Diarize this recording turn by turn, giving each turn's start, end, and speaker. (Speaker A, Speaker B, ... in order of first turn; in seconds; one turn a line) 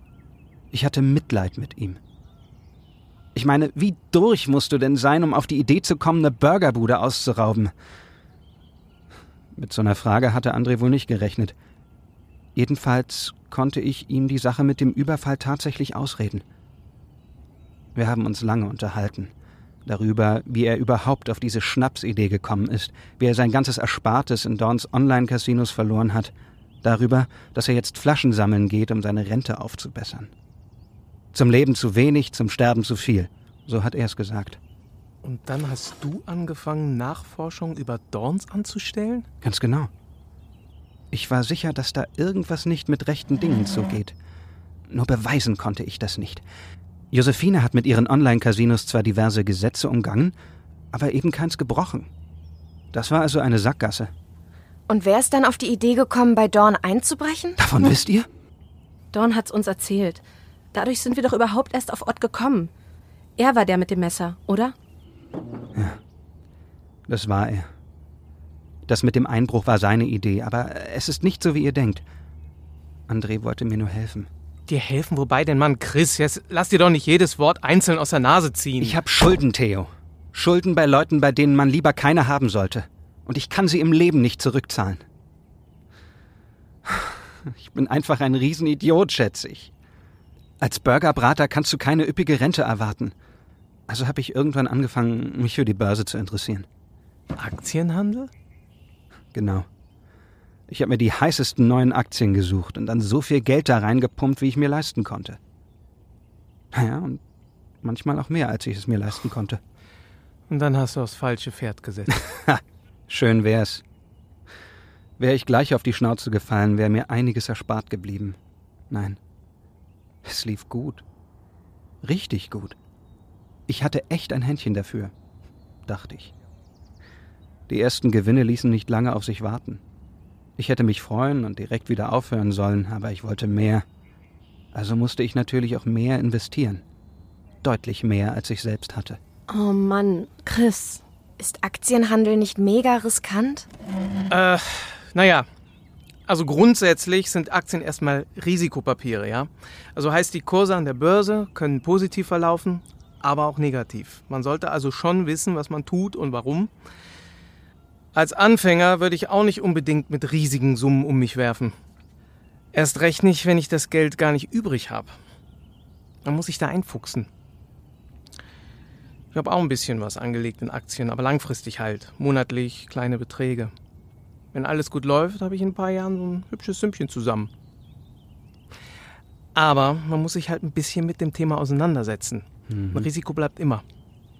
Speaker A: 0.7-2.0
Speaker A: 3.3-7.7
Speaker A: 9.5-11.6
Speaker A: 12.6-16.4
Speaker A: 17.9-19.3
Speaker A: 19.9-30.3
Speaker A: 31.3-34.6
Speaker B: 35.2-39.3
Speaker A: 39.4-39.9
Speaker A: 41.1-44.2
Speaker A: 44.9-46.4
Speaker A: 47.1-50.3
Speaker A: 50.9-52.1
Speaker A: 52.9-54.1
Speaker C: 54.9-57.6
Speaker A: 57.6-58.3
Speaker D: 59.1-60.2
Speaker D: 60.7-62.7
Speaker D: 63.4-64.7
Speaker A: 67.1-67.7
Speaker A: 68.9-72.0
Speaker A: 73.1-74.3
Speaker B: 74.7-79.0
Speaker A: 78.8-85.0
Speaker A: 86.9-89.7
Speaker A: 90.6-93.2
Speaker A: 93.9-96.7
Speaker B: 97.4-98.3
Speaker A: 99.3-99.7
Speaker A: 100.7-105.4
Speaker A: 106.7-107.2
Speaker A: 107.8-109.6
Speaker B: 110.5-112.2
Speaker A: 112.2-113.8
Speaker A: 115.2-118.4
Speaker A: 118.9-119.2
Speaker A: 120.2-121.0
Speaker A: 122.0-122.8
Speaker A: 123.7-125.1
Speaker A: 125.9-126.3
Speaker A: 127.7-129.8
Speaker A: 130.6-133.8
Speaker A: 134.7-136.8
Speaker A: 137.6-139.2
Speaker D: 139.5-141.0
Speaker C: 141.4-143.7
Speaker B: 144.3-145.5
Speaker B: 146.3-156.7
Speaker B: 158.1-161.8
Speaker B: 162.7-165.2
Speaker B: 166.2-167.3
Speaker B: 169.3-173.7
Speaker B: 174.5-177.5
Speaker B: 179.6-183.8
Speaker A: 182.7-183.1